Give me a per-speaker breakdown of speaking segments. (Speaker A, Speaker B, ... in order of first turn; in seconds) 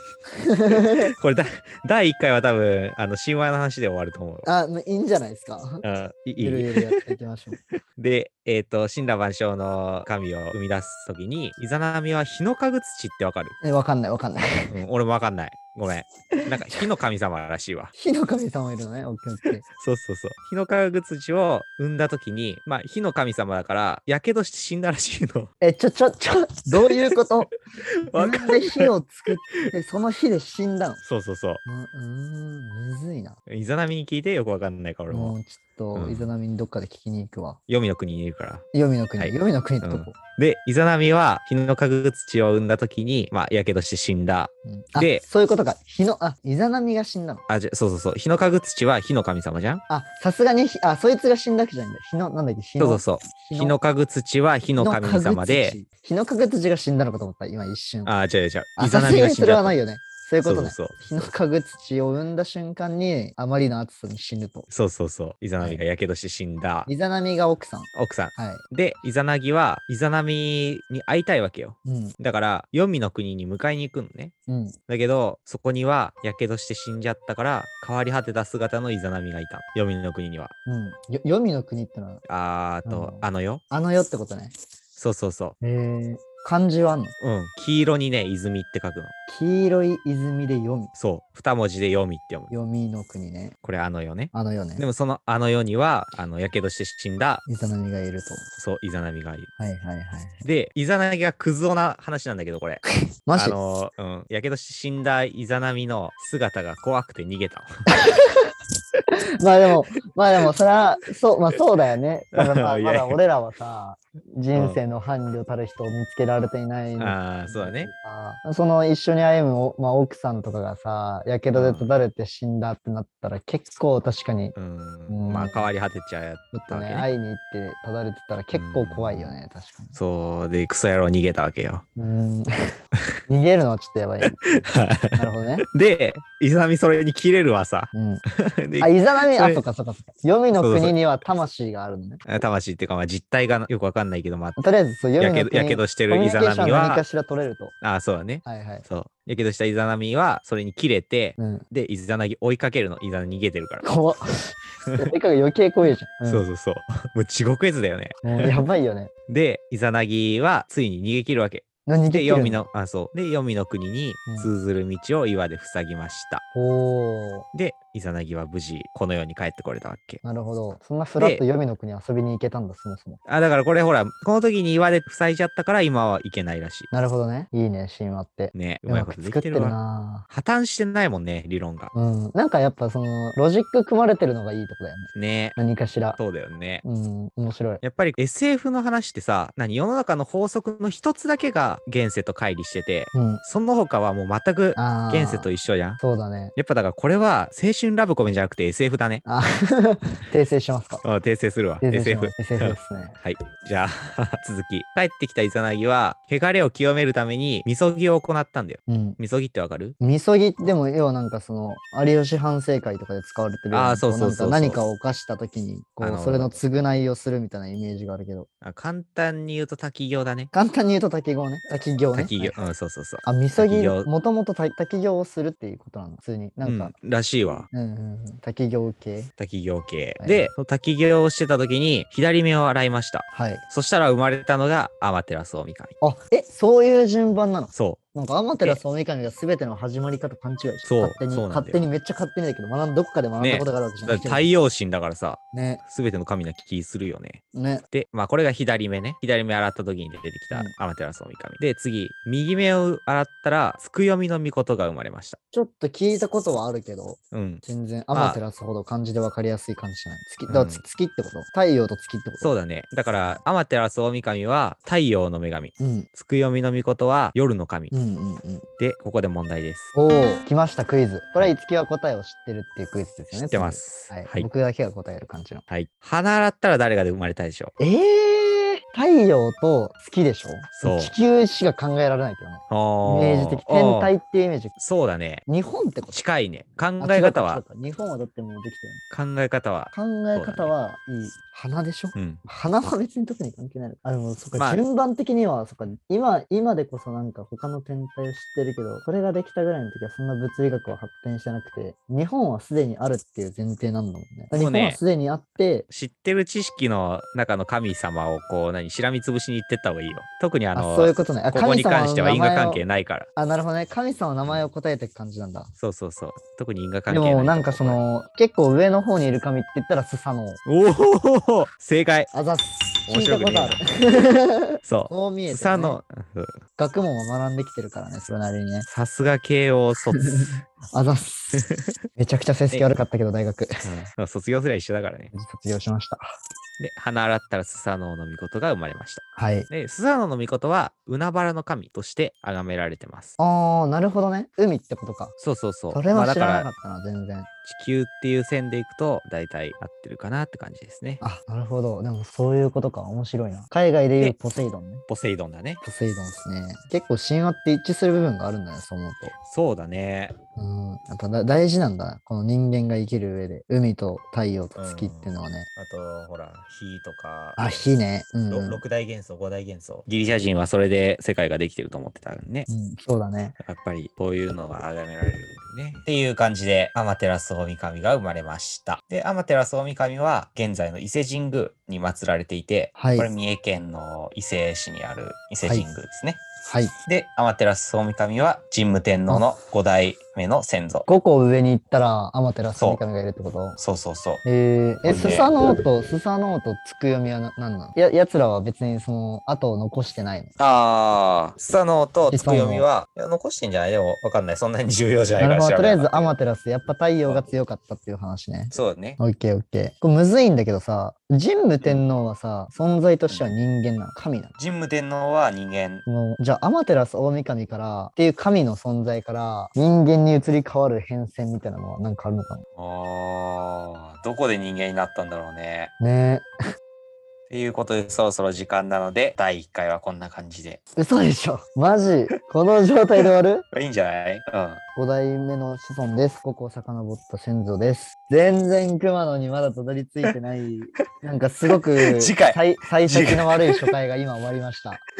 Speaker A: 0.5-1.1, 4.4-5.8, 6.4-7.6, 13.6-14.7, 17.9-19.6, 25.6-27.5, 28.1-31.0, 31.6-33.4, 35.1-37.6, 38.7-40.1, 44.6-47.4, 49.9-53.8, 54.8-58.1, 58.8-64.7, 66.9-68.6, 71.8-72.2, 74.5-74.8, 80.7-82.2, 82.8-84.5, 85.6-87.1, 89.3-90.9, 92.5-93.5, 94.3-94.8, 97.5-98.4, 99.6-100.4, 103.3-103.6, 107.9-108.5, 109.4-124.5, 125.1-125.7, 126.5-130.0, 132.0-132.5, 133.3-134.6, 135.1-135.7, 137.9-138.2, 138.8-142.2, 144.6-147.7, 148.4-148.8, 151.4-151.7, 153.8-156.4, 158.2-159.1, 161.8-162.6, 166.5-167.5, 170.2-173.2, 176.9-180.3, 181.9-186.2, 186.8-187.8, 193.1-193.4, 194.8-196.5, 199.2-201.0, 201.8-203.2, 208.9-209.2, 210.0-218.5, 220.5-222.7, 223.2-226.9, 227.7-229.3, 230.2-230.5, 233.3-233.6, 236.0-244.5, 245.5-245.8, 247.5-247.8, 255.5-262.5, 265.8-266.1, 267.9-268.7, 269.9-275.6, 277.8-284.8, 285.5-286.2, 287.0-289.0, 289.9-305.9, 310.7-312.8, 313.4-315.7, 317.1-320.6, 322.3-326.0, 326.8-328.9, 330.4-331.6, 332.2-333.7, 335.3-336.3, 339.3-339.7, 343.4-345.3, 345.9-347.5, 351.2-355.0, 355.8-359.3, 360.6-365.7, 367.6-368.8, 372.7-373.6, 383.0-383.3, 386.6-386.9, 391.1-393.8, 394.4-400.5, 402.3-402.9, 405.4-414.5, 416.1-422.6, 426.0-426.5, 430.9-433.6, 434.9-445.0
Speaker B: 0.7-4.5, 5.8-6.9, 8.0-13.6, 14.7-17.9, 19.7-25.5, 28.1-28.9, 31.0-31.6, 33.5-35.4, 35.9-36.3, 37.7-38.6, 39.2-45.2, 47.5-49.8, 52.8-55.8, 58.0-59.8, 60.4-61.3, 64.7-66.9, 67.9-74.3, 74.9-80.5, 82.3-83.6, 85.0-85.5, 87.2-89.1, 90.9-92.5, 93.6-97.4, 98.6-99.5, 100.4-102.8, 103.3-107.7, 112.3-113.2, 114.5-114.8, 117.0-117.9, 121.5-121.8, 124.5-127.1, 128.5-129.3, 129.9-131.8, 134.7-139.6, 140.6-141.0, 142.2-144.6, 145.2-147.0, 147.8-153.9, 154.8-155.1, 156.2-158.5, 159.3-166.4, 167.5-170.2, 171.2-171.4, 173.2-176.9, 178.5-179.8, 180.3-181.9, 185.1-185.6, 186.2-186.8, 187.8-196.0, 196.5-199.2, 201.0-209.9, 213.7-214.8, 216.0-216.6, 218.6-220.5, 222.1-224.1, 226.6-227.7, 229.4-235.9, 237.7-238.0, 240.8-241.8, 243.4-255.4, 257.3-258.4, 260.5-260.8, 262.4-267.9, 268.8-269.9, 273.3-274.5, 275.7-277.7, 280.8-281.1, 282.7-284.1, 284.8-285.5, 286.1-287.6, 289.1-290.7, 292.1-292.4, 294.6-294.8, 304.5-305.0, 305.9-313.3, 315.8-318.0, 320.6-322.3, 323.1-323.8, 324.9-326.6, 328.9-330.6, 331.5-331.9, 333.8-335.3, 336.8-343.3, 345.4-346.7, 347.6-351.2, 355.1-355.8, 359.4-360.4, 364.8-367.9, 368.5-372.7, 373.6-386.4, 387.1-391.1, 392.7-393.0, 393.8-394.4, 395.0-395.5, 400.6-406.3, 408.7-409.2, 414.6-416.0, 422.8-425.9, 427.5-430.8, 433.2-434.8, 441.7-443.9